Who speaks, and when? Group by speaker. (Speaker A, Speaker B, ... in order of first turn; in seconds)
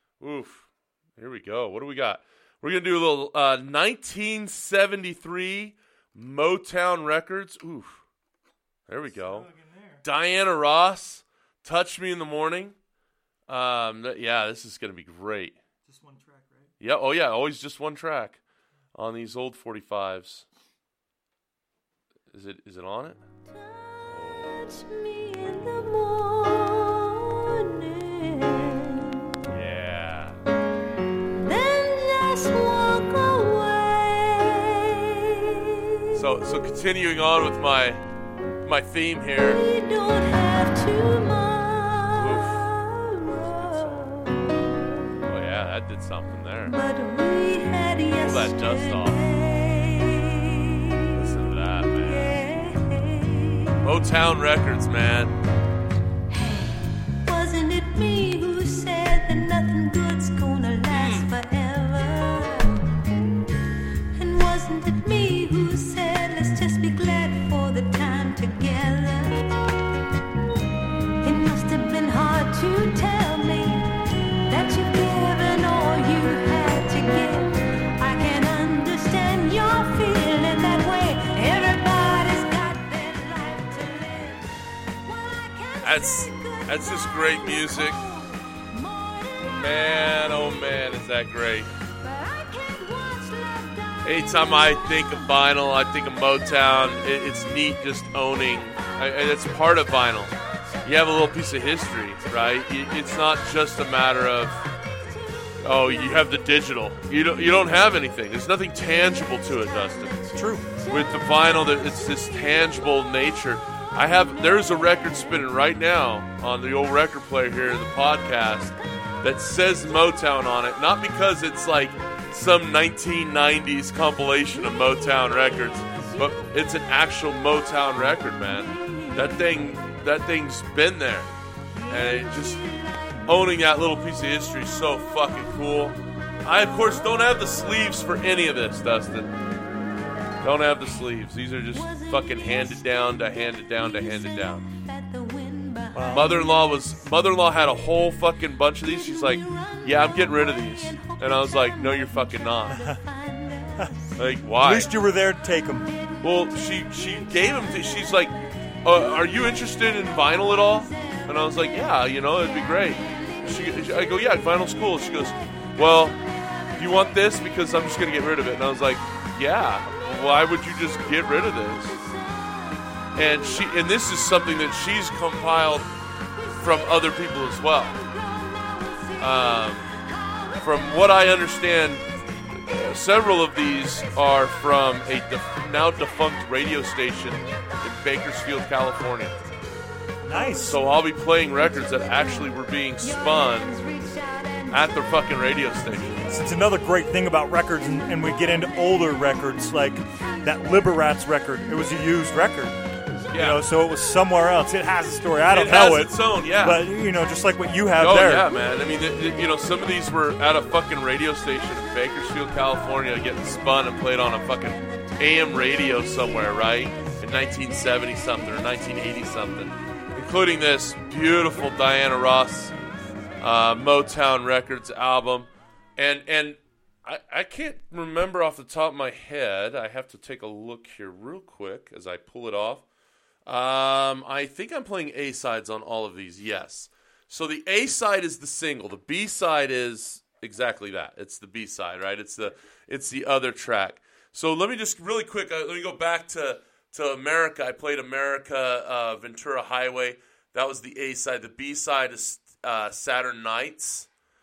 Speaker A: 0.2-8.0, 8.9-9.5, 10.0-12.8, 13.5-15.6, 16.8-18.4, 18.9-20.5, 22.3-23.2, 24.0-24.7, 29.5-30.4, 36.1-38.0, 38.6-39.6, 42.1-42.7, 43.5-44.1, 45.2-46.8, 48.2-49.2, 51.1-52.4, 53.8-55.3, 60.9-61.3, 85.8-88.0, 89.5-91.7, 94.0-104.7, 105.6-131.3, 131.9-139.3, 140.4-144.7, 146.1-152.8, 154.2-154.9, 156.2-166.2, 166.7-172.0, 173.2-175.9, 176.5-178.0, 179.2-179.9, 180.6-189.4, 190.6-193.8, 194.7-196.3, 203.3-203.7, 205.5-206.8, 208.0-222.7, 223.4-232.8, 233.5-254.1
Speaker B: 9.1-10.0, 15.8-16.7, 110.3-110.8, 145.9-146.3, 152.7-153.0, 154.6-155.9, 190.2-190.8, 196.3-202.8, 203.3-208.5
Speaker C: 23.6-29.3, 31.4-35.9, 39.4-44.9, 46.7-51.0, 52.0-53.8, 56.3-62.9, 64.2-69.6, 71.2-73.9, 74.5-89.8, 92.0-94.0, 131.8-133.2, 141.8-142.6, 144.6-146.6, 152.9-154.1, 172.1-172.8, 178.0-179.2, 180.2-180.6, 193.7-194.7